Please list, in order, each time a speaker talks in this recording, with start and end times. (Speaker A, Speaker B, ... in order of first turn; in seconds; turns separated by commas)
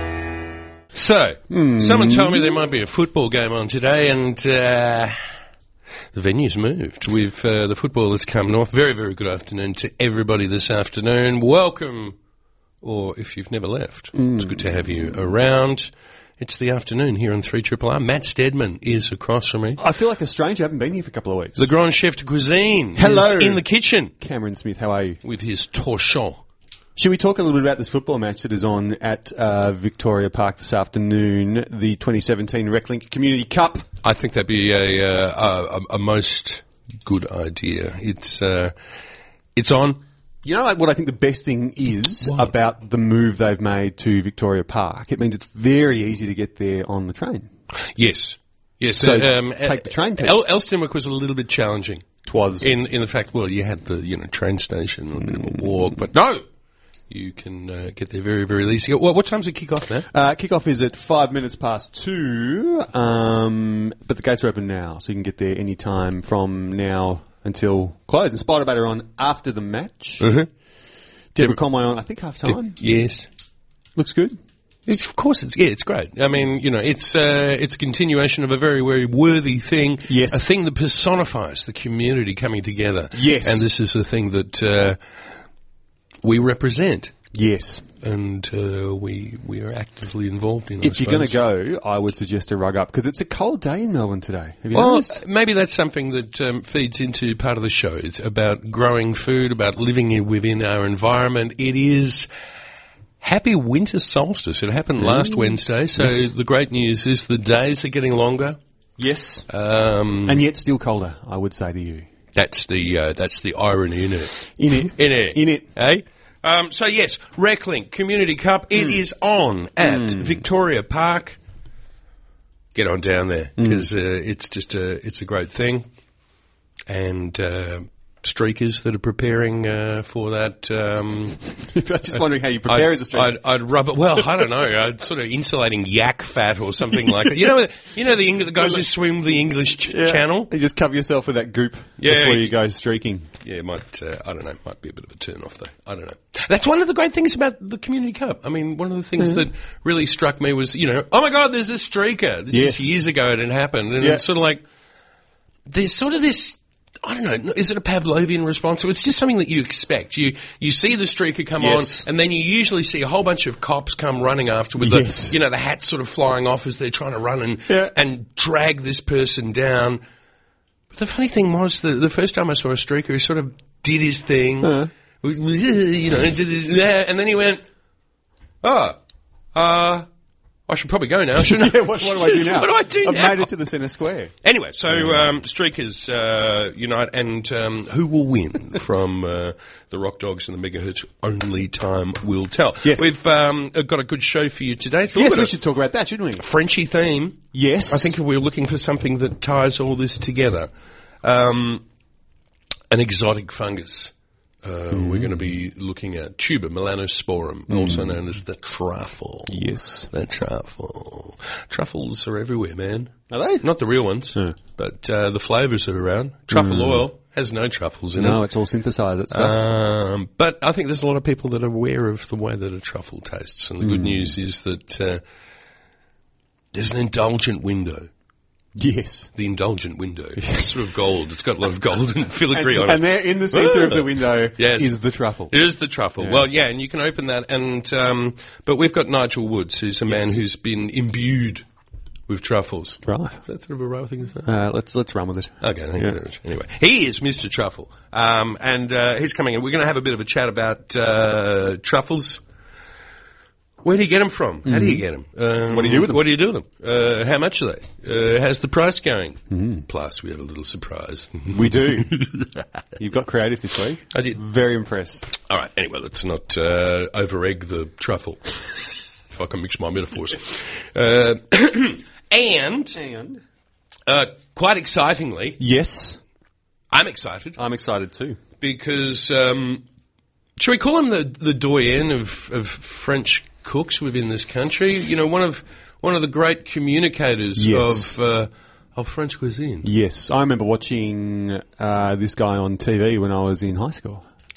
Speaker A: 0.9-5.2, Speaker B: 1.5-2.5, Speaker A: 6.1-12.2, Speaker A: 12.8-19.8, Speaker B: 14.1-14.8, Speaker B: 19.8-21.7, Speaker A: 21.6-24.1, Speaker B: 23.0-23.6, Speaker B: 24.2-25.2, Speaker A: 25.2-26.4, Speaker B: 27.0-33.9, Speaker A: 34.0-38.7, Speaker A: 39.5-40.0, Speaker B: 40.4-47.5, Speaker A: 47.9-52.1, Speaker B: 48.9-50.4, Speaker B: 52.3-52.7, Speaker A: 52.6-56.4, Speaker A: 57.1-60.1, Speaker B: 60.1-70.3, Speaker A: 70.2-70.5, Speaker B: 71.3-72.8, Speaker A: 72.7-73.3, Speaker B: 74.0-74.4, Speaker A: 74.9-85.0, Speaker B: 80.1-80.4, Speaker B: 83.1-83.7, Speaker A: 86.2-87.1, Speaker B: 87.3-87.9, Speaker A: 88.0-91.4, Speaker B: 90.8-95.2, Speaker A: 94.7-102.3, Speaker A: 103.2-108.6, Speaker B: 105.0-106.2, Speaker B: 109.0-109.5, Speaker A: 109.5-110.4, Speaker B: 110.3-112.1, Speaker A: 112.3-121.4, Speaker B: 114.5-115.7, Speaker B: 119.8-120.4, Speaker A: 122.8-125.9, Speaker B: 123.6-123.8, Speaker A: 126.9-131.4, Speaker B: 131.7-133.4, Speaker A: 132.7-140.5, Speaker B: 139.9-143.3, Speaker A: 142.0-142.6, Speaker A: 143.4-154.6, Speaker B: 152.5-153.0, Speaker A: 155.7-170.0, Speaker B: 161.6-162.1, Speaker B: 164.8-165.4, Speaker B: 167.7-167.9, Speaker A: 170.9-177.6, Speaker B: 174.6-174.9, Speaker A: 178.6-179.0, Speaker A: 179.5-180.1, Speaker A: 180.7-183.5, Speaker B: 181.4-184.3, Speaker A: 184.4-195.5, Speaker B: 195.1-196.4, Speaker A: 196.4-200.7, Speaker B: 197.5-198.2, Speaker A: 201.2-201.8, Speaker A: 202.9-204.1, Speaker A: 204.6-218.4, Speaker B: 204.9-205.3, Speaker B: 207.7-208.2, Speaker B: 209.5-210.1, Speaker B: 213.3-213.7, Speaker B: 216.5-217.0, Speaker B: 218.2-219.6, Speaker A: 219.3-225.2, Speaker B: 223.8-224.3, Speaker A: 226.7-228.1, Speaker B: 228.8-229.3, Speaker A: 229.3-234.9, Speaker B: 232.5-235.5, Speaker A: 235.5-241.6, Speaker A: 242.3-244.5, Speaker B: 243.1-243.4, Speaker B: 244.4-246.2, Speaker A: 245.6-252.4, Speaker A: 253.8-262.5, Speaker B: 254.7-255.0, Speaker B: 255.7-256.2, Speaker B: 259.5-259.9, Speaker B: 261.5-262.3, Speaker B: 263.0-265.2, Speaker A: 264.1-264.4, Speaker A: 265.5-268.6, Speaker A: 269.3-273.0, Speaker B: 272.9-273.4, Speaker A: 274.1-275.6, Speaker B: 275.6-276.2, Speaker A: 276.9-277.6, Speaker B: 277.6-278.4, Speaker A: 278.6-279.8, Speaker A: 280.6-289.9, Speaker B: 287.6-288.2, Speaker B: 289.8-294.2